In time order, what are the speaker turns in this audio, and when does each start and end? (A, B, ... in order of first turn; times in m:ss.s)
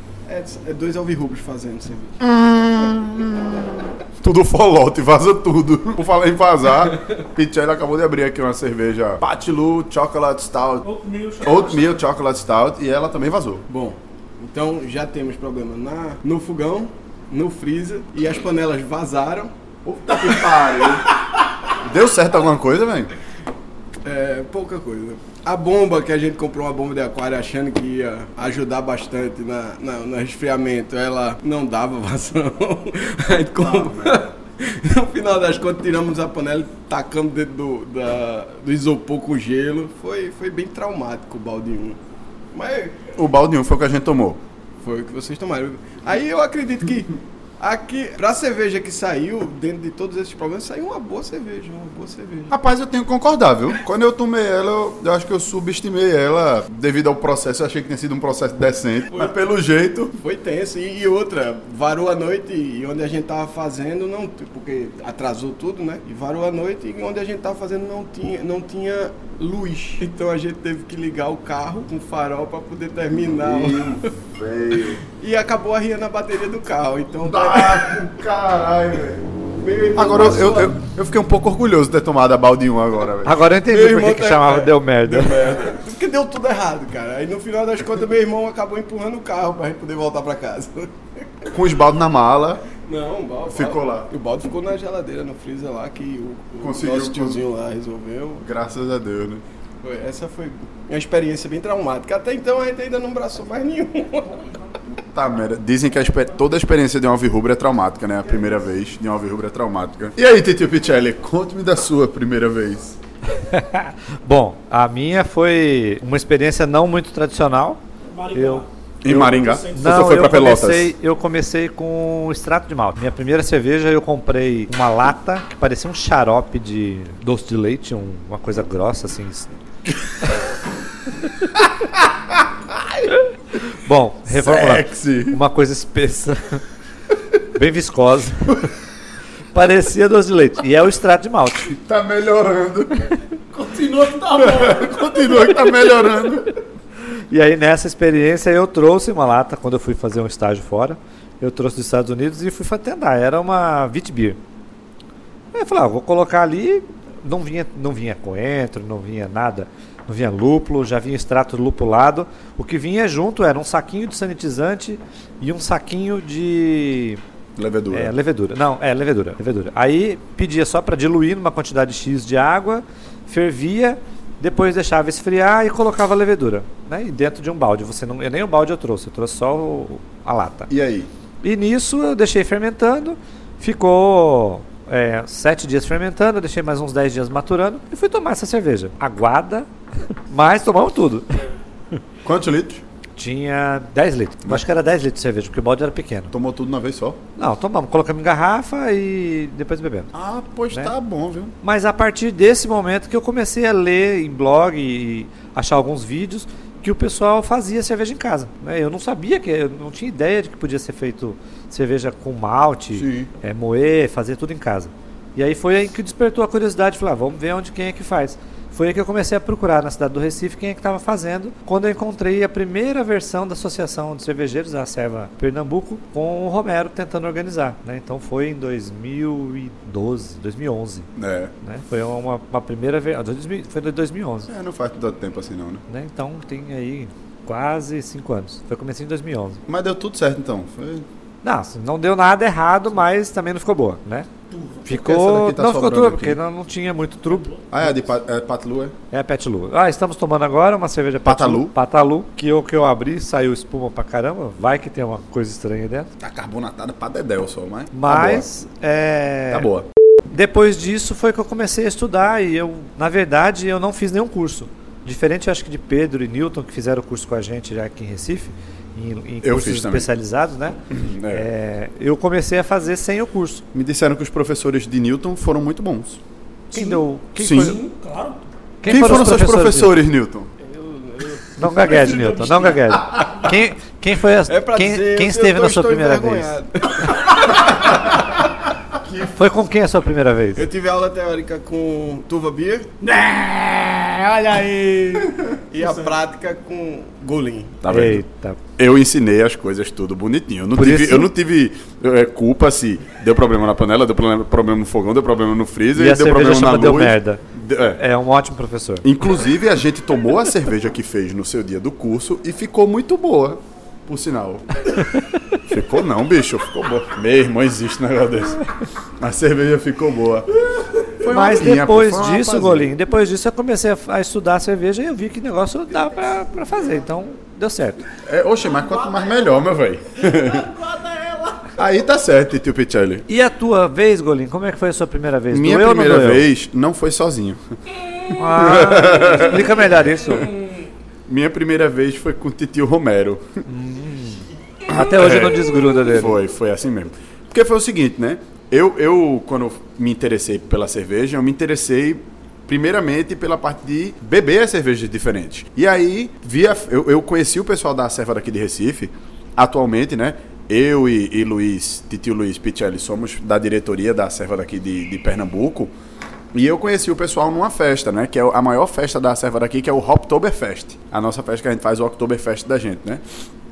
0:00.2-0:02.2 A
0:02.2-0:10.8 B
0:10.8-0:12.0 C
0:11.4-0:13.6 B
0:13.7-0:19.5 A
0:19.8-0:21.0 B
0:21.8-0:23.1 B
0:24.0-0:42.0 A
0:33.6-0:34.2 B
0:42.5-0:43.0 A
0:43.2-0:44.4 B
0:44.8-0:52.5 A
0:52.5-1:00.2 B
0:59.1-0:59.4 A
1:00.2-1:14.0 A
1:13.2-1:15.0 B
1:15.2-1:18.1 A
1:17.2-1:19.3 B
1:19.6-1:20.8 A
1:19.9-1:23.4 B
1:23.2-1:25.5 D
1:23.7-1:31.5 A
1:31.5-1:32.6 B
1:32.8-1:38.5 A
1:33.4-1:34.1 B
1:36.6-1:37.4 B
1:38.4-1:39.4 B
1:39.8-1:44.5 A
1:44.9-1:53.0 B
1:53.4-1:57.8 D
1:58.1-2:00.2 C
1:58.3-1:58.6 D
1:59.0-2:00.9 B
1:59.7-2:09.5 D
2:13.7-2:16.6 D
2:14.3-2:15.4 B
2:17.5-2:18.7 D
2:19.5-2:21.7 D
2:21.7-2:23.1 B
2:23.5-2:25.1 C
2:24.3-2:26.5 B
2:27.3-2:34.4 D
2:35.5-2:47.2 D
2:47.6-2:48.1 B
2:47.9-3:00.7 D
3:00.7-3:01.1 B
3:01.4-3:09.7 D
3:10.3-3:11.3 D
3:12.2-3:12.8 B
3:13.2-3:16.3 D
3:16.3-3:17.2 B
3:17.4-3:20.1 D
3:20.1-3:21.5 B
3:21.6-3:51.1 D
3:32.9-3:33.3 B
3:51.2-3:51.5 B
3:51.6-3:54.5 D
3:54.5-3:55.8 B
3:55.9-3:59.6 D
3:59.7-4:01.0 B
4:01.4-4:04.3 D
4:04.5-4:04.8 C
4:04.8-4:07.5 D
4:04.9-4:06.4 B
4:07.3-4:07.6 C
4:07.7-4:08.9 B
4:09.1-4:16.1 D
4:11.2-4:11.7 B
4:16.2-4:18.4 B
4:17.9-4:19.7 D
4:19.5-4:19.9 B
4:20.3-4:30.8 D
4:29.4-4:30.1 B
4:30.9-4:31.5 B
4:31.3-4:33.6 D
4:33.7-4:36.2 B
4:36.7-4:37.8 D
4:36.7-4:38.4 C
4:37.4-4:37.8 B
4:38.8-4:40.0 D
4:38.8-4:40.5 B
4:40.6-4:41.5 A
4:41.6-4:46.5 D
4:41.9-4:42.8 C
4:44.5-4:47.7 A
4:49.2-4:50.6 D
4:50.6-4:52.9 A
4:53.0-4:56.2 C
4:55.7-4:57.8 A
4:57.8-4:58.2 B
4:57.9-4:58.6 D
4:58.8-5:08.0 B
5:00.8-5:01.3 D
5:05.9-5:07.4 D
5:08.0-5:09.0 D
5:09.0-5:14.6 B
5:15.7-5:18.6 B
5:19.2-5:20.5 B
5:21.0-5:22.9 B
5:21.3-5:28.0 D
5:28.2-5:30.7 B
5:30.5-5:31.6 C
5:31.8-5:33.2 B
5:33.3-5:36.4 D
5:35.5-5:37.6 B
5:38.4-5:40.5 D
5:38.5-5:39.7 B
5:41.3-5:43.6 B
5:43.6-5:46.4 D
5:44.9-6:05.9 B
6:06.5-6:13.2 B